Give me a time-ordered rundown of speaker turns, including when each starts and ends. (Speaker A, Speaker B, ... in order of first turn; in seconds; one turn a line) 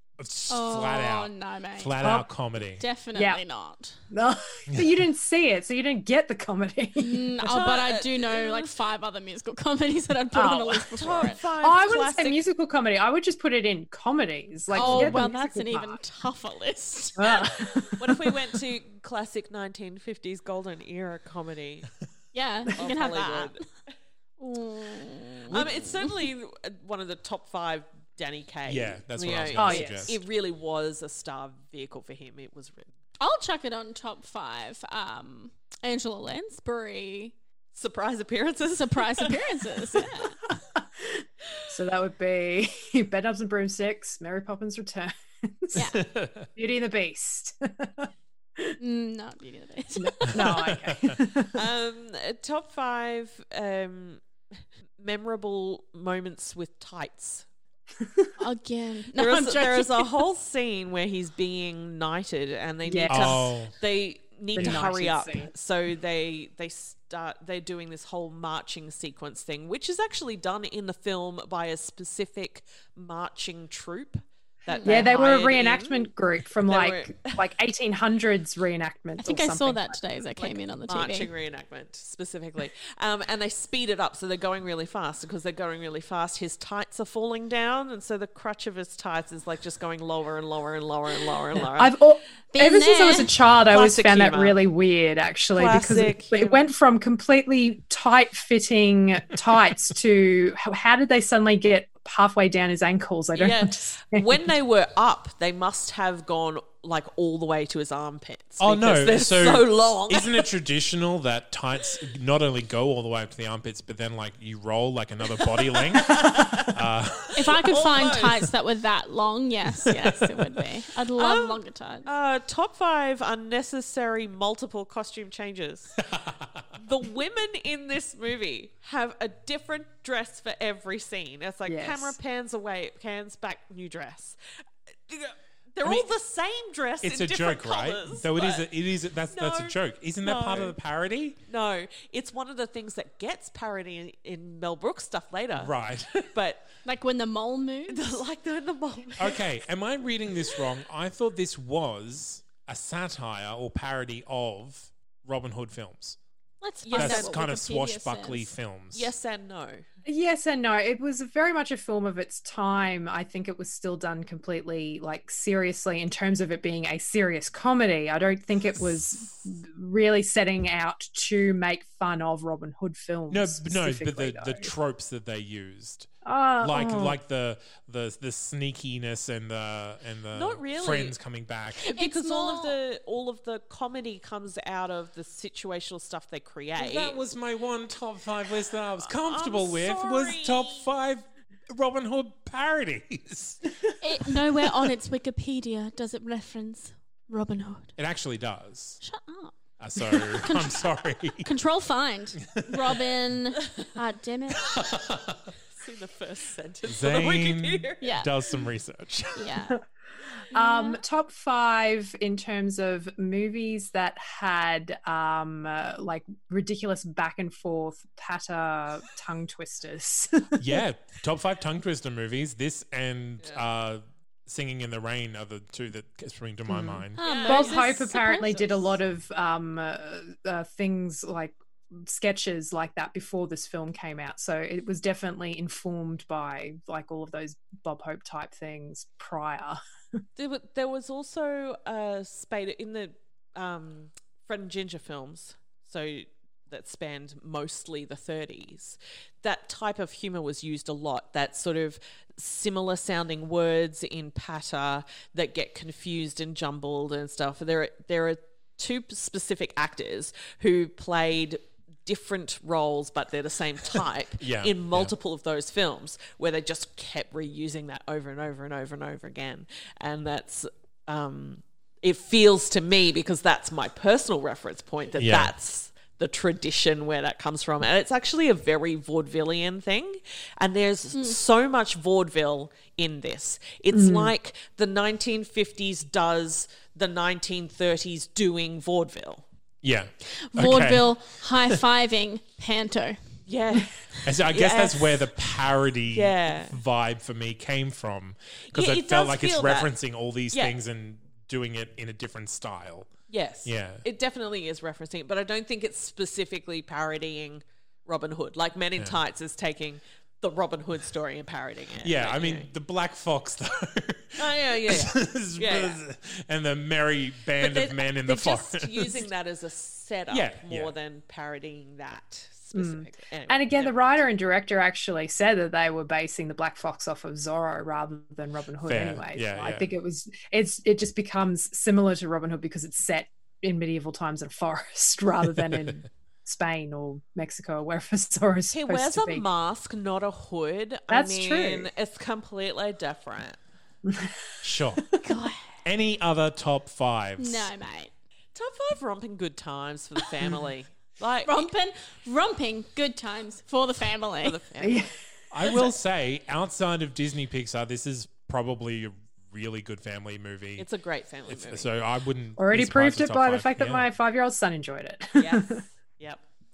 Speaker A: 0.2-2.8
Speaker B: 0.5-2.0
Speaker C: 2.0-2.3
Speaker B: 2.8-4.0
Speaker C: 3.1-3.4
Speaker C: 4.1-7.5
Speaker B: 7.0-11.4
Speaker D: 7.5-8.7
Speaker C: 10.3-10.9
Speaker D: 10.9-12.4
Speaker C: 11.6-16.0
Speaker B: 14.7-17.9
Speaker D: 14.7-15.3
Speaker C: 17.2-18.4
Speaker D: 18.0-21.9
Speaker B: 22.3-23.6
Speaker D: 22.8-23.6
Speaker B: 24.4-26.3
Speaker D: 25.5-32.9
Speaker A: 28.6-30.1
Speaker C: 29.6-30.1
Speaker B: 33.2-37.3
Speaker D: 37.7-40.2
Speaker B: 38.7-40.4
Speaker C: 40.5-46.0
Speaker B: 45.7-46.0
Speaker A: 45.9-46.5
Speaker C: 46.5-48.8
Speaker B: 48.8-50.5
Speaker C: 50.0-51.6
Speaker A: 50.3-51.2
Speaker D: 51.5-57.5
Speaker C: 58.0-58.3
Speaker B: 58.4-60.2
Speaker D: 59.1-77.4
Speaker C: 62.9-63.4
Speaker A: 63.1-63.7
Speaker C: 64.5-65.5
Speaker B: 74.7-75.1
Speaker C: 74.8-80.0
Speaker B: 79.2-81.3
Speaker D: 80.3-91.9
Speaker C: 91.7-104.5
Speaker B: 92.5-93.3
Speaker D: 93.7-94.6
Speaker D: 95.5-96.7
Speaker D: 103.3-110.5
Speaker A: 108.6-117.6
Speaker D: 115.4-116.8
Speaker B: 117.3-122.1
Speaker D: 117.5-118.4
Speaker A: 119.8-120.3
Speaker D: 121.2-126.0
Speaker A: 126.0-126.6
Speaker D: 126.8-134.4
Speaker C: 131.7-132.2
Speaker D: 134.9-138.7
Speaker A: 135.8-136.1
Speaker A: 137.0-141.4
Speaker D: 139.3-140.8
Speaker D: 141.4-146.7
Speaker A: 145.5-146.3
Speaker B: 146.8-148.2
Speaker D: 147.9-149.5
Speaker A: 149.2-156.2
Speaker B: 156.6-158.5
Speaker D: 156.8-157.3
Speaker A: 156.9-159.1
Speaker D: 158.9-159.8
Speaker C: 160.0-174.7
Speaker A: 173.3-176.1
Speaker C: 176.2-177.2
Speaker A: 176.6-181.9
Speaker D: 180.3-181.2
Speaker B: 181.8-182.8
Speaker D: 181.8-187.2
Speaker A: 186.8-193.9
Speaker D: 189.0-190.9
Speaker B: 194.0-197.9
Speaker A: 198.0-199.0
Speaker B: 199.0-199.6
Speaker A: 199.8-201.5
Speaker B: 200.1-200.8
Speaker B: 201.4-204.7
Speaker A: 202.5-203.0
Speaker A: 204.5-205.5
Speaker D: 205.7-208.2
Speaker A: 206.8-209.5
Speaker B: 208.0-208.3
Speaker B: 209.3-209.8
Speaker C: 210.5-220.8
Speaker B: 210.5-211.0
Speaker A: 220.6-227.2
Speaker D: 223.4-223.7
Speaker C: 226.7-239.8
Speaker B: 227.2-228.9
Speaker D: 227.2-228.0
Speaker D: 240.3-289.4
Speaker A: 264.4-265.1
Speaker A: 275.2-275.5
Speaker B: 281.1-281.4
Speaker C: 283.9-284.3
Speaker A: 289.8-291.1
Speaker B: 290.5-293.2
Speaker D: 293.4-293.9
Speaker A: 294.2-303.1
Speaker D: 294.4-295.3
Speaker D: 296.1-296.8
Speaker D: 298.7-299.9
Speaker D: 300.5-300.9
Speaker D: 303.3-312.7
Speaker A: 303.6-304.0
Speaker A: 312.0-319.2
Speaker D: 314.4-316.0
Speaker D: 317.6-324.2
Speaker A: 320.3-320.9
Speaker C: 322.7-339.5
Speaker A: 328.8-329.9
Speaker D: 338.7-343.6
Speaker C: 341.1-341.9
Speaker C: 344.1-344.4
Speaker A: 344.6-345.1
Speaker B: 345.2-345.8
Speaker A: 345.8-347.7
Speaker B: 347.4-348.1
Speaker D: 348.5-351.7
Speaker B: 351.4-354.6
Speaker D: 354.4-355.1
Speaker C: 354.8-355.1
Speaker A: 355.5-360.9
Speaker D: 360.8-361.9
Speaker A: 361.5-364.1
Speaker C: 362.6-365.8
Speaker D: 365.4-366.4